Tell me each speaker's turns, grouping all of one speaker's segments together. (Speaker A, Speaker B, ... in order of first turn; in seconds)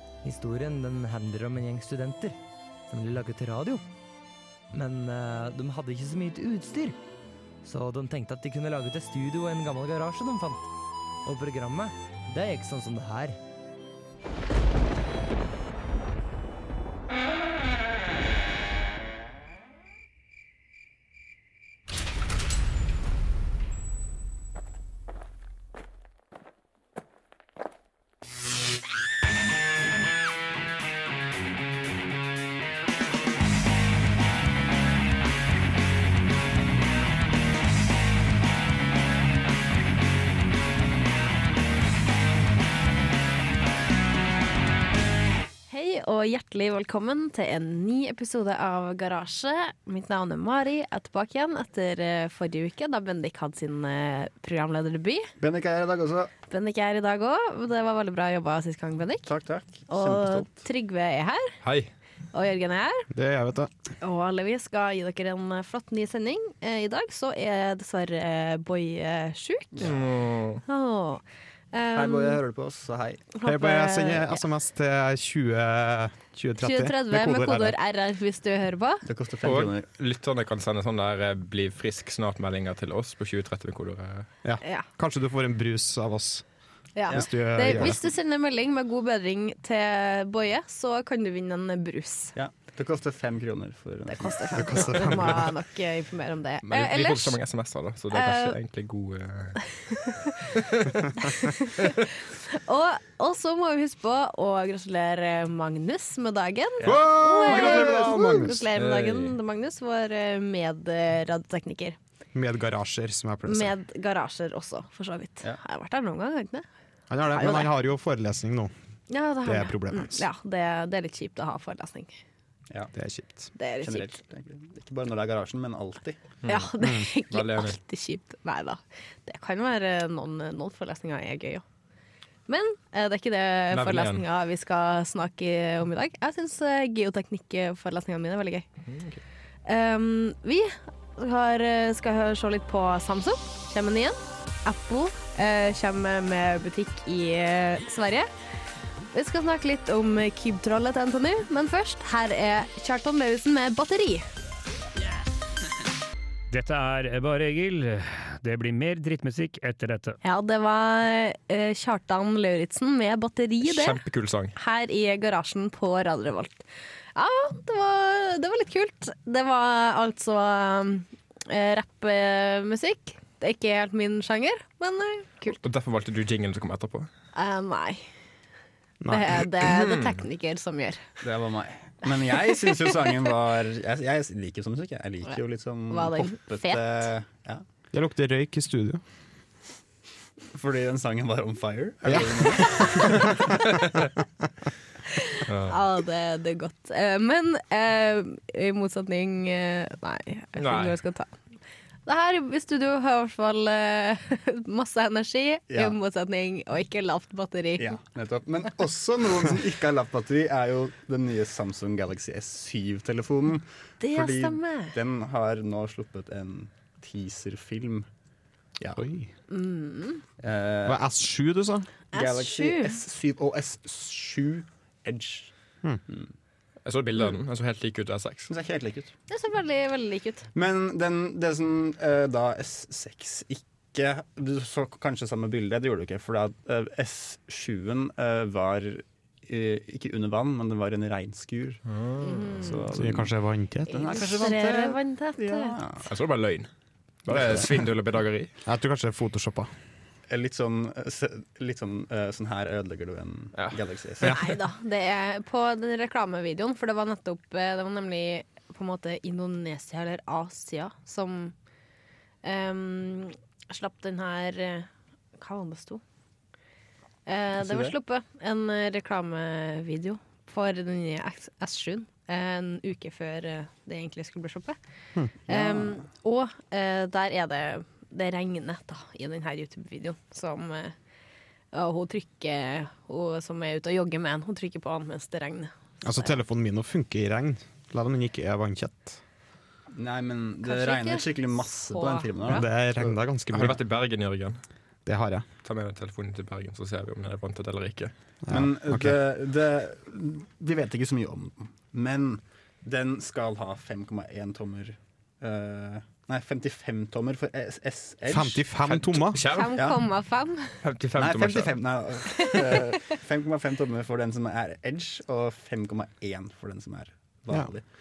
Speaker A: 0.2-2.4, 2.9-3.9, 4.7-7.0, 7.6-10.7, 11.2-13.4
Speaker B: 45.7-55.3, 56.5-59.3, 59.9-61.5, 62.3-63.1, 64.0-69.8, 70.7-72.4, 73.3-74.4, 76.6-79.0, 87.0-92.3, 94.1-97.4, 98.1-98.6, 99.7-100.7, 101.2-112.0, 113.5-116.7, 117.3-117.7, 119.1-122.2, 123.6-124.2, 126.5-131.6, 132.5-138.7, 139.7-148.3, 149.1-154.3, 160.2-164.0, 164.6-166.6, 167.2-175.6, 177.3-178.1, 179.1-181.0, 182.5-182.9, 185.9-187.1, 192.6-193.6, 195.1-201.4, 202.1-208.0, 214.0-215.0, 219.5-220.2, 222.1-223.0, 229.3-230.5, 242.2-242.8, 243.9-245.8, 254.3-261.6, 262.4-266.0, 267.3-274.8, 275.5-280.9, 281.7-286.3, 290.6-292.7, 309.5-310.8
Speaker C: 55.4-56.3, 59.2-60.5, 69.8-70.0, 71.9-73.2, 79.0-79.8, 87.1-87.9, 92.4-95.2, 106.8-108.4, 123.8-126.2, 181.2-187.6, 190.5-193.3, 205.7-206.0, 207.8-218.1, 220.4-221.1, 222.1-225.5, 228.5-229.1, 230.5-241.8, 242.6-243.3, 243.9-246.1, 250.3-254.4, 267.6-267.9, 275.5-276.0, 289.9-293.1, 298.5-308.6, 311.2-317.9
Speaker D: 61.6-61.9, 69.8-70.6, 79.4-84.3, 96.7-101.9, 108.8-109.4, 126.4-126.7, 127.3-127.8, 133.7-134.2, 138.9-139.2, 163.6-164.6, 175.5-177.1, 179.6-180.2, 195.5-195.8, 200.6-201.0, 226.8-228.5, 241.9-242.7, 246.1-246.7, 247.3-248.5, 253.6-254.3, 293.5-294.6, 295.6-298.1, 308.9-309.9, 310.8-311.7
Speaker E: 63.1-63.7, 73.4-77.8, 84.4-86.5, 87.1-88.0, 94.5-95.5, 106.9-108.7, 112.3-113.7, 117.1-118.7, 119.5-120.2, 122.9-123.5, 126.8-127.1, 179.0-179.4, 187.9-189.0, 192.1-193.5, 219.0-219.3, 220.8-221.9, 242.9-244.3, 248.7-249.7, 286.0-289.2, 292.5-293.8, 295.1-295.5, 298.5-299.2, 308.3-309.5
Speaker F: 156.5-160.2